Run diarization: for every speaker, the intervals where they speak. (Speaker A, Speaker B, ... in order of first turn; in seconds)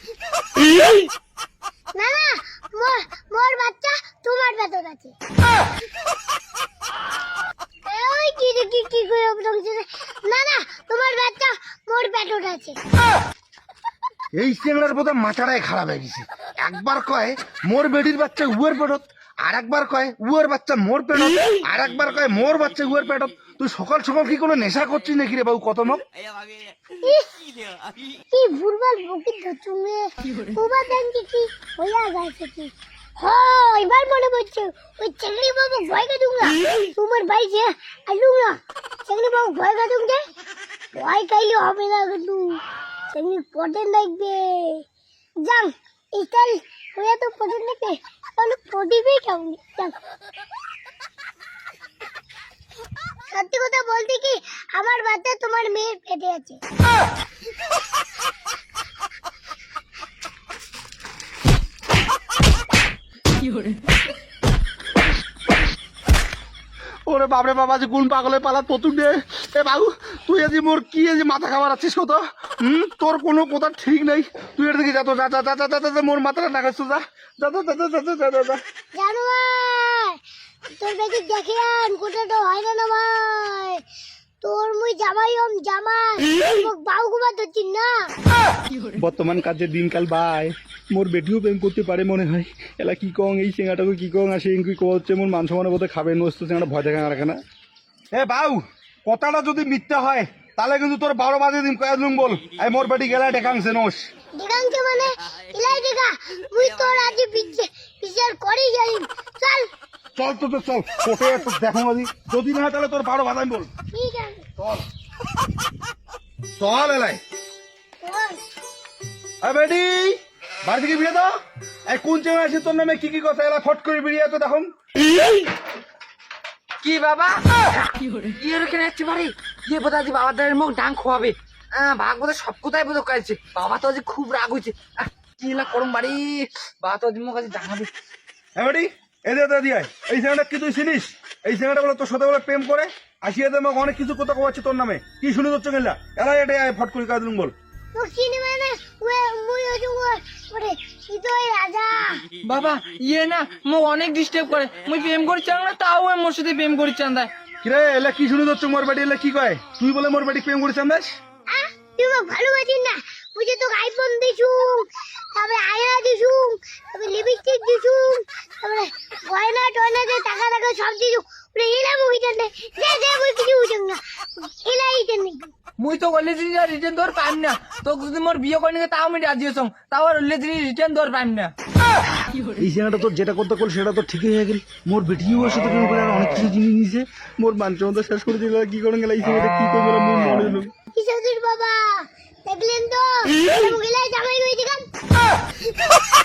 Speaker A: 1.9-5.2, 7.9-12.8, 28.3-40.2, 41.0-44.9, 45.4-50.0, 53.3-56.6, 79.0-80.2, 80.7-83.8, 84.4-88.1, 104.4-109.7, 113.9-114.5, 118.0-118.4, 147.9-152.2, 161.5-175.5, 190.9-194.9
Speaker B: 14.3-26.0, 67.1-78.6, 89.0-97.4, 98.1-104.1, 110.2-113.7, 114.6-114.8, 116.6-117.2, 119.4-121.3, 121.9-124.7, 138.6-147.5, 157.6-161.2, 182.4-190.7
Speaker C: 126.8-137.9, 152.4-157.3, 175.8-181.5